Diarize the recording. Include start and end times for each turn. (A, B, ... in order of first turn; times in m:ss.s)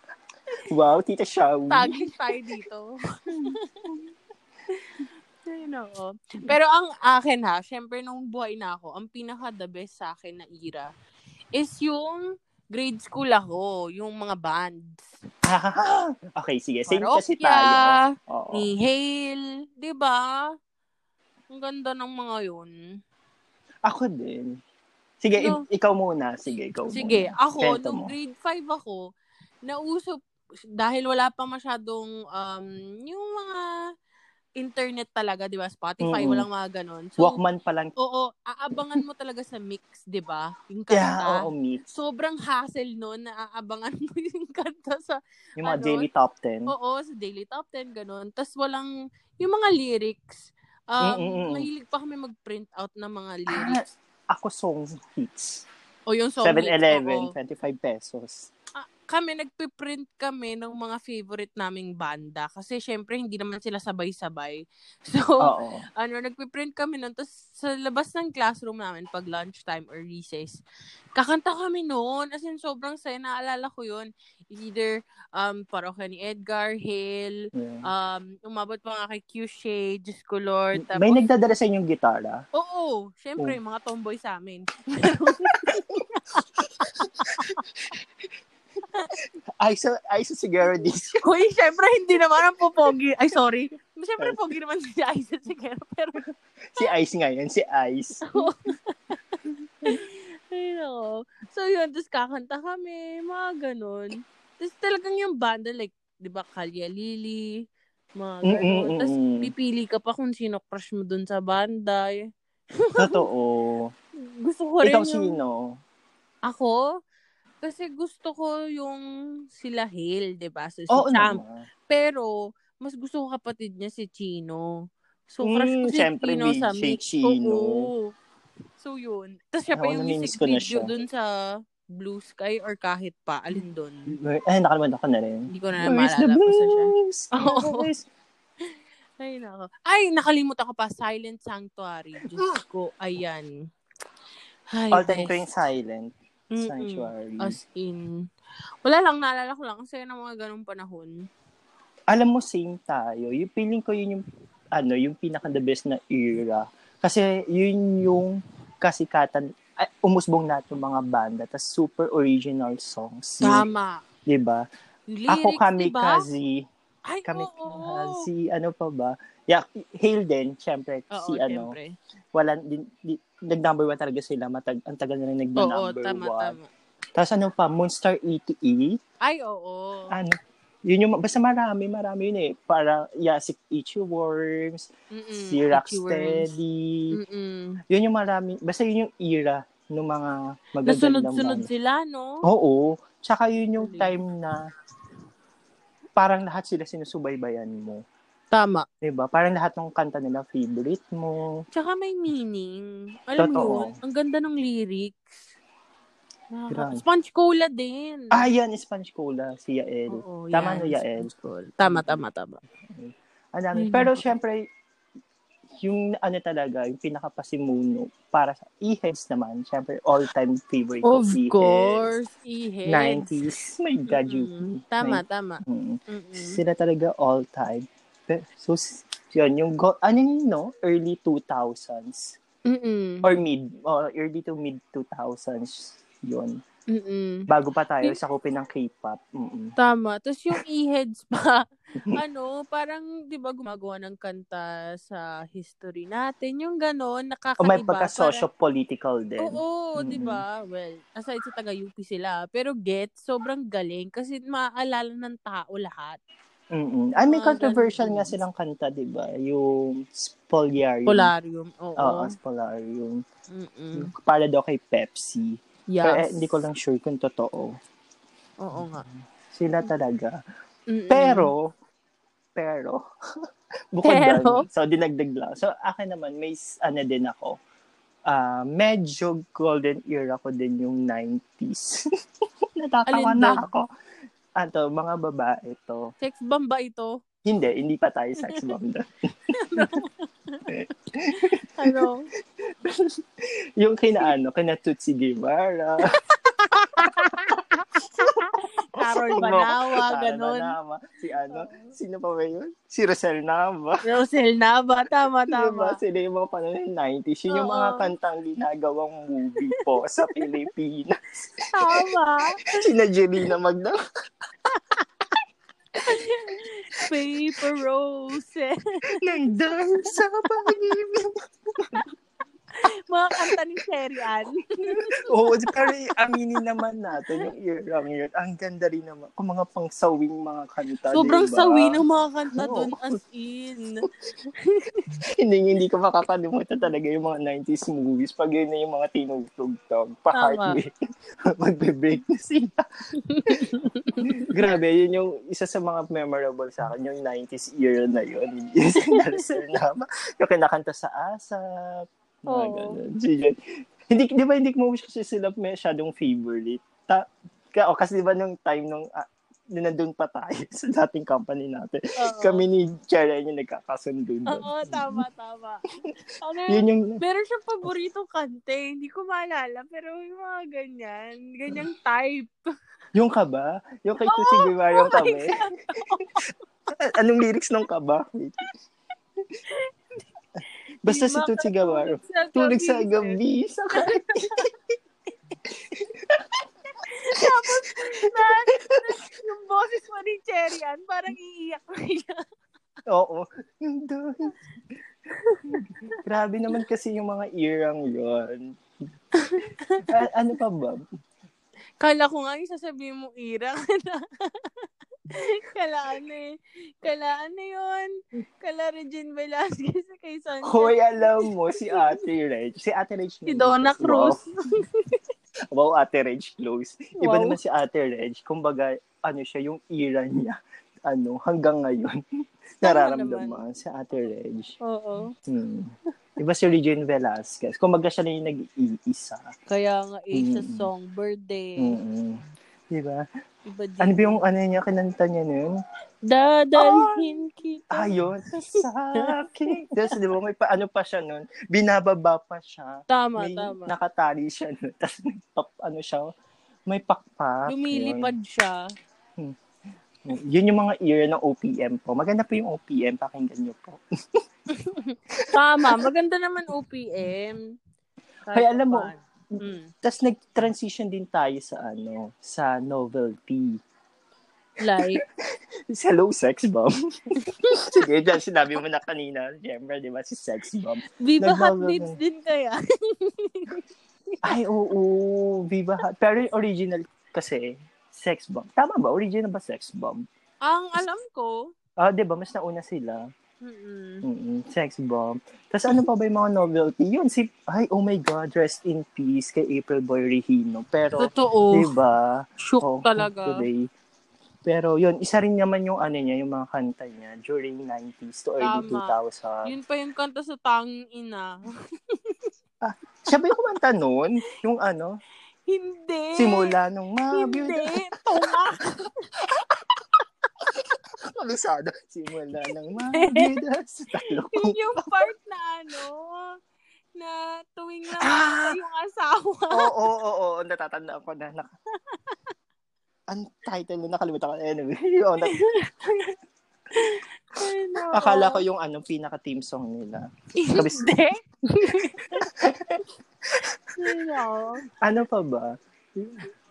0:00.6-0:02.2 A
0:01.7-0:02.9 B
0:03.3-0:03.6 A
0:03.5-0:03.9 B
0:04.7-0:10.9 B
0:11.5-0:15.0 B
0:15.4-0:18.7 A
0:16.9-0:20.5 B
0:21.5-0:22.7 B
0:23.9-0:24.6 A
0:25.2-0:28.1 A
0:25.4-0:25.6 B
0:26.9-0:29.0 B
0:29.6-0:30.2 B
0:30.8-0:33.6 B
0:34.6-0:37.4 B
0:36.0-0:36.4 A
0:37.2-0:37.9 A
0:38.0-0:46.1 B
0:40.9-0:41.8 A
0:45.6-0:46.7 A
0:46.7-0:53.8 B
0:51.0-0:51.7 A
0:53.5-0:55.6 A
0:56.1-0:57.3 B
0:56.4-0:58.5 A
0:58.8-1:10.6 B
1:05.4-1:05.8 A
1:11.1-1:21.2 B
1:17.5-1:17.9 A
1:20.8-1:22.4 A
1:22.5-1:27.6 B
1:25.3-1:26.0 A
1:26.6-1:27.9 A
1:29.6-1:31.2 A
1:30.8-1:36.2 B
1:36.7-1:38.6 A
1:38.3-1:47.6 B
1:48.2-1:53.2 B
1:48.4-1:49.5 A
1:53.0-1:53.9 A
1:54.2-1:55.3 B
1:54.8-1:55.8 A
1:56.4-1:56.9 B
1:57.6-2:08.1 B
2:00.9-2:01.7 A
2:05.4-2:07.9 A
2:08.8-2:14.1 B
2:09.7-2:10.9 A
2:13.5-2:18.0 A
2:15.5-2:17.9 B
2:19.2-2:23.5 B
2:24.7-2:25.4 B
2:24.9-2:27.6 A
2:26.5-2:28.2 B
2:28.8-2:31.3 B
2:32.1-2:43.6 A
2:43.4-2:44.0 B
2:44.3-2:44.6 A
2:45.1-2:46.2 B
2:45.3-2:46.6 A
2:47.1-2:48.3 B
2:47.2-2:51.7 A
2:51.1-2:51.9 B
2:52.3-2:56.6 A
2:55.6-2:56.7 B
2:57.2-2:59.0 A
2:59.2-3:00.1 B
3:00.1-3:07.2 A
3:05.1-3:06.4 B
3:07.1-3:07.8 B
3:07.9-3:11.7 A
3:10.8-3:12.4 B
3:12.4-3:14.7 A
3:13.8-3:14.2 B
3:16.2-3:18.0 A
3:18.5-3:18.8 B
3:19.0-3:21.5 A
3:21.7-3:25.4 B
3:23.4-3:24.0 A
3:26.5-3:28.4 B
3:26.7-3:27.0 A
3:28.3-3:32.2 A
3:30.1-3:32.6 B
3:32.9-3:34.7 A
3:33.7-3:34.2 B
3:35.8-3:42.2 A
3:41.0-3:43.3 B
3:42.9-3:52.4 A
3:44.1-3:46.6 B
3:52.6-3:53.3 B
3:53.2-3:56.6 A
3:56.9-3:57.5 B
3:57.5-3:59.7 A
3:59.8-4:08.4 B
4:07.6-4:10.4 A
4:09.4-4:16.2 B
4:16.7-4:21.3 A
4:17.2-4:18.3 B
4:21.1-4:22.3 B
4:22.0-4:23.2 A
4:23.5-4:24.1 B
4:23.9-4:27.7 A
4:25.9-4:26.6 B
4:28.6-4:29.0 B
4:29.5-4:30.4 A
4:30.9-4:31.5 B
4:31.1-4:31.7 A
4:32.6-4:33.0 A
4:33.9-4:37.6 A
4:34.0-4:34.6 B
4:38.3-4:42.0 A
4:42.8-4:43.8 A
4:43.1-4:43.6 B
4:44.6-4:46.1 A
4:46.2-4:47.1 B
4:47.4-4:50.0 A
4:48.4-4:48.7 B
4:49.6-4:50.7 B
4:50.7-4:52.1 A
4:51.3-4:52.3 B
4:52.6-4:53.2 A
4:53.8-4:56.1 A
4:56.3-5:00.7 B
4:56.9-4:57.6 A
4:58.1-5:04.1 A
5:01.5-5:01.9 B
5:04.0-5:06.0 B
5:05.5-5:12.1 A
5:07.5-5:08.1 B
5:11.7-5:12.8 B
5:12.7-5:14.0 A
5:14.7-5:15.0 B
5:16.0-5:19.4 B
5:17.0-5:17.7 A
5:19.1-5:22.0 A
5:20.0-5:20.7 B
5:23.1-5:25.9 B
5:24.9-5:32.0 A
5:27.2-5:27.4 B
5:31.1-5:34.0 B
5:32.5-5:33.0 A
5:34.6-5:35.1 B
5:35.4-5:40.9 A
5:40.3-5:40.8 B
5:41.5-5:42.8 A
5:43.2-5:44.4 B
5:43.4-5:53.6 A
5:49.1-5:49.6 B
5:52.5-5:53.0 B
5:54.1-6:05.2 A
6:02.2-6:02.6 B
6:04.5-6:05.8 B
6:06.4-6:12.6 B
6:06.7-6:07.2 A
6:13.1-6:15.6 A
6:14.3-6:16.4 B
6:16.9-6:18.7 A
6:21.0-6:24.7 A
6:21.0-6:23.4 B
6:23.9-6:24.6 B
6:25.6-6:26.6 A
6:27.0-6:32.4 B
6:27.3-6:29.2 A
6:33.1-6:34.6 A
6:35.3-6:36.2 B
6:35.7-6:38.8 A
6:39.4-6:40.2 B
6:40.0-6:41.0 A
6:42.0-6:52.2 B
6:50.6-6:54.4 A
6:53.5-6:55.2 B
6:55.7-7:02.2 A
6:57.2-6:57.6 B
7:02.8-7:04.8 A
7:02.8-7:03.6 B
7:04.8-7:05.3 B
7:05.4-7:09.5 A
7:09.7-7:12.0 B
7:10.3-7:10.9 A
7:11.8-7:13.2 A
7:13.6-7:14.4 B
7:14.0-7:15.8 A
7:16.2-7:20.2 B
7:16.8-7:17.3 A
7:17.9-7:26.3 A
7:23.1-7:23.9 B
7:26.9-7:28.3 A
7:27.7-7:28.9 B
7:30.2-7:34.0 A
7:34.7-7:37.7 B
7:35.3-7:36.1 A
7:38.5-7:39.9 B
7:38.5-7:39.1 A
7:40.0-7:43.8 A
7:44.8-7:45.2 B
7:45.0-7:45.2 A
7:45.9-7:52.2 A
7:47.4-7:48.1 B
7:51.2-7:54.6 B
7:54.4-8:00.2 A
8:00.6-8:01.7 B
8:02.0-8:03.3 A
8:03.6-8:04.2 B
8:04.2-8:13.9 A
8:11.2-8:11.9 B
8:12.6-8:13.7 B
8:14.6-8:19.7 A
8:18.6-8:21.6 B
8:22.1-8:22.5 B
8:22.8-8:25.2 A
8:25.7-8:26.8 B
8:26.4-8:28.6 A
8:27.3-8:29.3 B
8:30.7-8:35.3 A
8:33.1-8:33.6 B
8:34.5-8:36.6 B
8:37.2-8:39.9 B
8:38.2-8:38.8 A
8:39.7-8:41.7 A
8:42.1-8:42.4 B
8:43.3-8:45.5 A
8:45.4-8:46.3 B
8:46.9-8:48.6 B
8:48.1-8:51.1 A
8:50.6-8:52.5 B
8:52.0-8:54.2 A
8:54.0-8:54.8 B
8:55.0-8:56.4 A